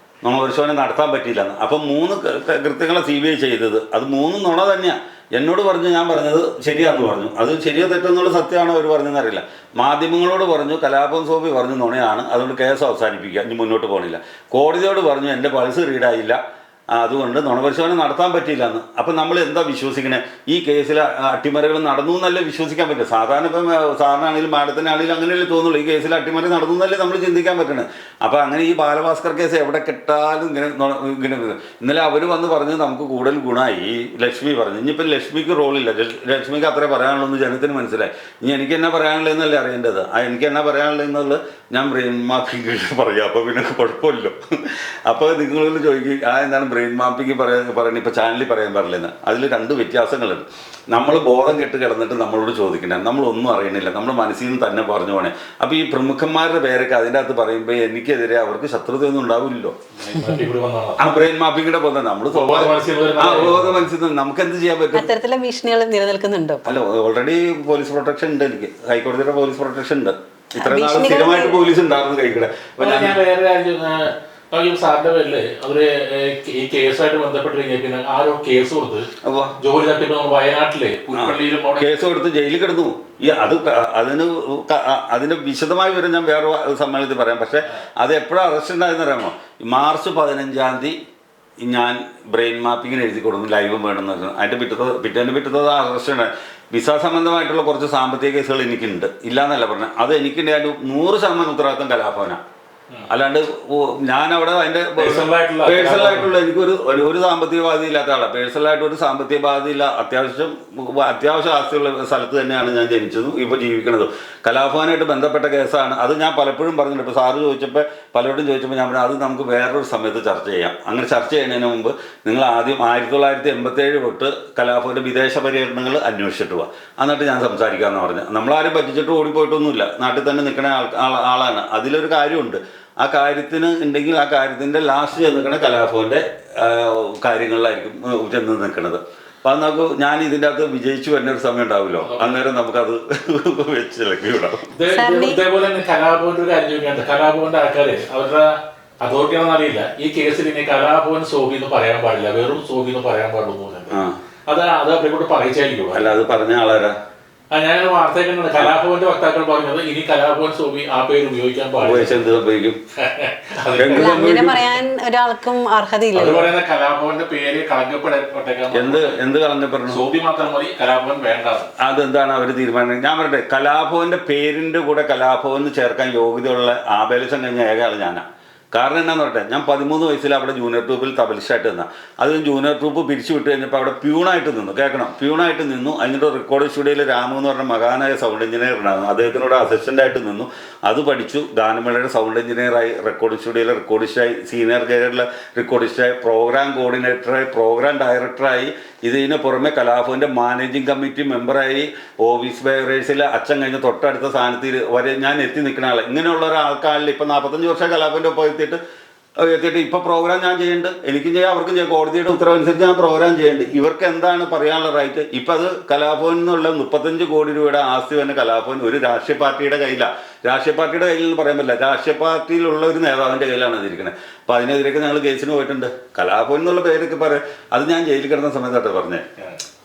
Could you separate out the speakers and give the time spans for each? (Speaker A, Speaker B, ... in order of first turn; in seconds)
Speaker A: 0.2-16.4, 16.9-59.8, 61.0-65.1, 66.7-73.2, 79.2-79.6, 81.1-91.0, 91.6-102.4, 103.1-144.7, 153.9-154.2, 155.9-157.0, 161.8-162.8, 163.7-164.6, 168.7-170.1, 171.8-208.8, 209.4-229.3
Speaker B: 60.0-61.0, 62.3-63.9, 72.8-81.9, 105.0-106.3, 142.0-142.4, 144.7-156.2, 157.5-162.3, 163.0-164.4, 166.2-169.2, 169.9-171.7
Speaker C: 65.0-66.7, 70.6-71.7, 144.9-145.4, 163.9-166.5